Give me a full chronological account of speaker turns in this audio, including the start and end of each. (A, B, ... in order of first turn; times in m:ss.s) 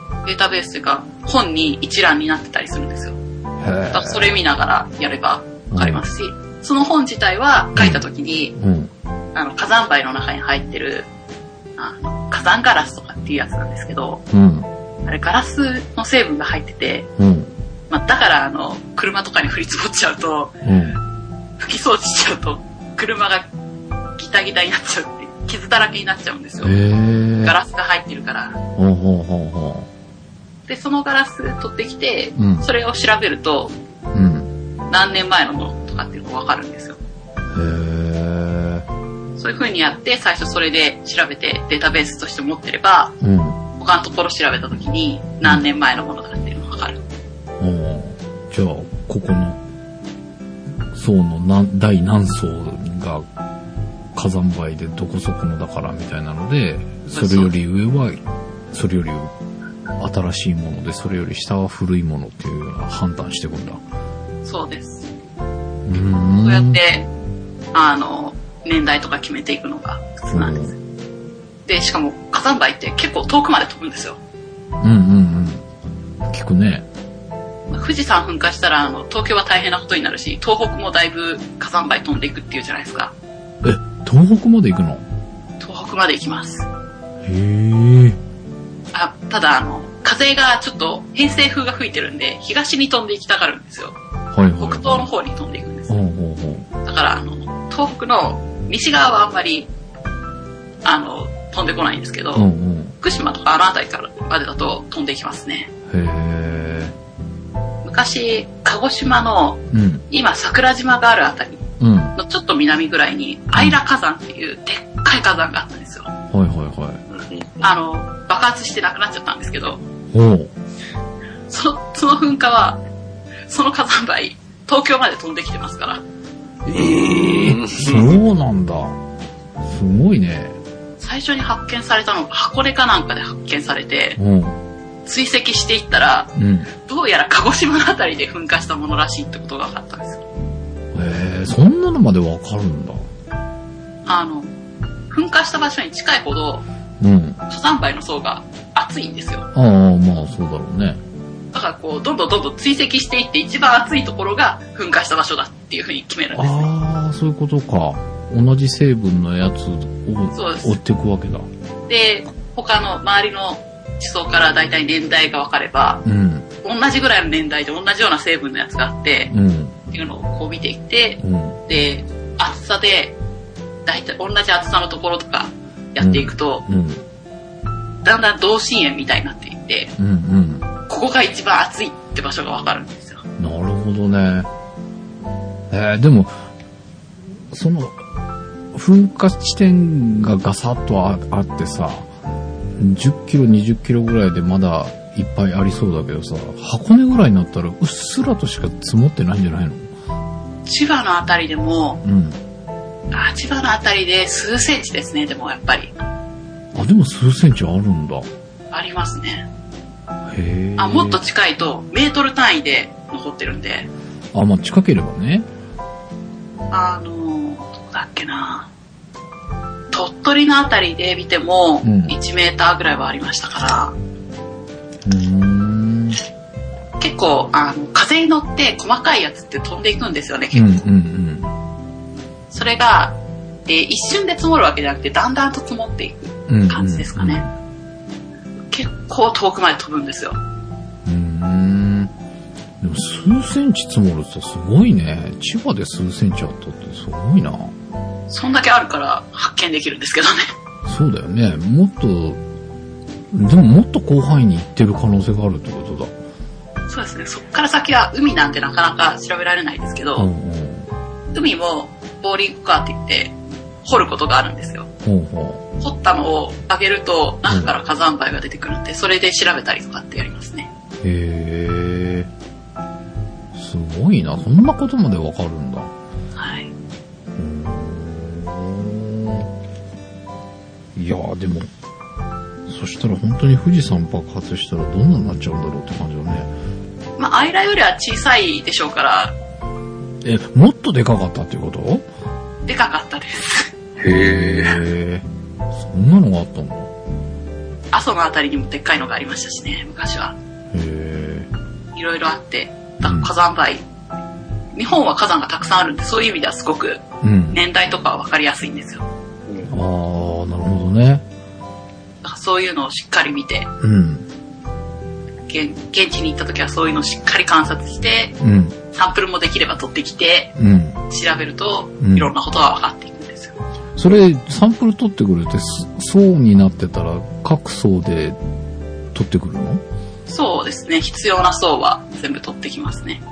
0:00.2-0:03.2 A
0:03.6-0:04.4 B
0:03.9-0:08.5 A
0:05.7-0:06.0 B
0:07.8-0:08.0 B
0:08.6-0:08.9 B
0:09.4-0:11.1 A
0:11.8-0:14.2 A
0:14.3-0:14.7 B
0:15.0-0:17.1 A
0:17.2-0:17.5 B
0:17.9-0:20.6 A
0:20.6-0:21.0 B
0:21.6-0:23.5 A
0:24.2-0:26.8 A
0:26.6-0:27.6 B
0:27.4-0:28.6 A
0:28.8-0:29.9 B
0:30.7-0:33.7 A
0:32.4-0:32.7 B
0:34.1-0:34.5 B
0:34.9-0:37.0 A
0:37.5-0:38.8 B
0:39.4-0:43.1 A
0:43.2-0:43.6 B
0:43.8-0:47.0 A
0:47.6-0:49.6 B
0:50.9-0:53.3 B
0:54.2-0:58.2 B
0:57.1-0:57.5 A
0:58.7-0:59.3 B
1:00.0-1:03.8 B
1:04.4-1:05.1 A
1:05.9-1:06.8 B
1:06.4-1:07.1 A
1:07.7-1:10.8 A
1:10.3-1:10.7 B
1:11.7-1:14.2 A
1:14.8-1:15.6 B
1:16.2-1:16.9 B
1:17.7-1:23.1 A
1:23.6-1:25.0 B
1:25.6-1:26.7 A
1:27.2-1:28.2 B
1:28.9-1:34.0 A
1:34.3-1:35.1 B
1:34.6-1:36.0 A
1:35.9-1:36.7 B
1:36.8-1:39.7 A
1:40.8-1:42.5 A
1:42.3-1:43.0 B
1:43.0-1:45.7 A
1:45.9-1:47.0 B
1:47.8-1:51.6 A
1:49.7-1:50.0 B
1:51.8-1:52.2 B
1:52.2-1:56.1 A
1:56.3-1:57.0 B
1:57.1-1:57.6 C
1:57.6-1:59.8 A
2:00.1-2:00.5 B
2:01.5-2:02.8 A
2:03.5-2:06.0 A
2:06.7-2:09.0 B
2:06.7-2:08.2 C
2:09.6-2:10.6 B
2:11.0-2:14.2 A
2:14.2-2:14.6 B
2:15.1-2:16.3 A
2:16.4-2:16.7 B
2:16.8-2:20.2 A
2:20.9-2:23.1 B
2:24.1-2:24.5 A
2:25.1-2:26.6 A
2:27.0-2:27.4 B
2:27.5-2:29.5 A
2:29.6-2:31.0 B
2:31.5-2:36.7 A
2:36.3-2:41.5 B
2:40.3-2:40.8 A
2:41.9-2:46.0 A
2:46.0-2:46.5 B
2:46.6-2:49.3 A
2:49.3-2:49.8 B
2:49.9-2:53.2 A
2:51.2-2:51.6 B
2:53.9-2:56.6 A
2:56.0-2:57.0 B
2:58.0-2:59.9 A
3:00.0-3:00.7 B
3:00.9-3:03.2 A
3:03.4-3:04.5 B
3:05.7-3:06.4 B
3:07.5-3:08.0 B
3:08.7-3:12.1 B
3:12.8-3:19.9 B
3:20.7-3:22.0 A
3:22.0-3:22.4 B
3:23.1-3:25.9 A
3:26.7-3:28.3 B
3:28.7-3:29.5 A
3:30.3-3:31.2 B
3:30.8-3:33.9 A
3:34.3-3:35.5 B
3:36.7-3:38.7 A
3:39.9-3:44.0 A
3:41.8-3:42.2 B
3:45.0-3:46.2 B
3:47.0-3:50.8 A
3:50.5-3:51.5 B
3:52.5-3:57.5 A
3:56.5-3:57.5 B
3:58.7-4:00.4 A
4:01.0-4:02.1 B
4:02.8-4:07.7 B
4:08.3-4:10.5 A
4:10.8-4:12.4 B
4:13.3-4:16.2 B
4:16.9-4:20.3 A
4:20.2-4:20.9 B
4:21.3-4:24.9 A
4:25.0-4:25.6 B
4:25.8-4:30.7 A
4:27.5-4:27.8 B
4:31.0-4:32.3 B
4:33.5-4:35.9 B
4:36.4-4:36.7 A
4:37.3-4:39.5 B
4:41.0-4:41.7 B
4:42.7-4:46.5 B
4:47.2-4:49.4 A
4:50.2-4:52.1 B
4:52.7-4:53.7 A
4:54.0-4:54.8 C
4:54.2-4:56.9 B
4:57.9-5:00.4 A
5:00.7-5:01.5 B
5:02.0-5:03.8 A
5:03.0-5:03.3 B
5:04.7-5:09.0 A
5:07.2-5:07.6 B
5:09.5-5:09.7 C
5:09.7-5:11.2 B
5:12.2-5:13.7 A
5:13.8-5:14.3 B
5:15.5-5:18.4 A
5:18.4-5:18.8 B
5:18.9-5:20.5 A
5:20.6-5:21.0 B
5:21.1-5:23.6 A
5:22.0-5:22.3 B
5:24.0-5:28.4 B
5:29.1-5:29.8 B
5:30.3-5:33.2 A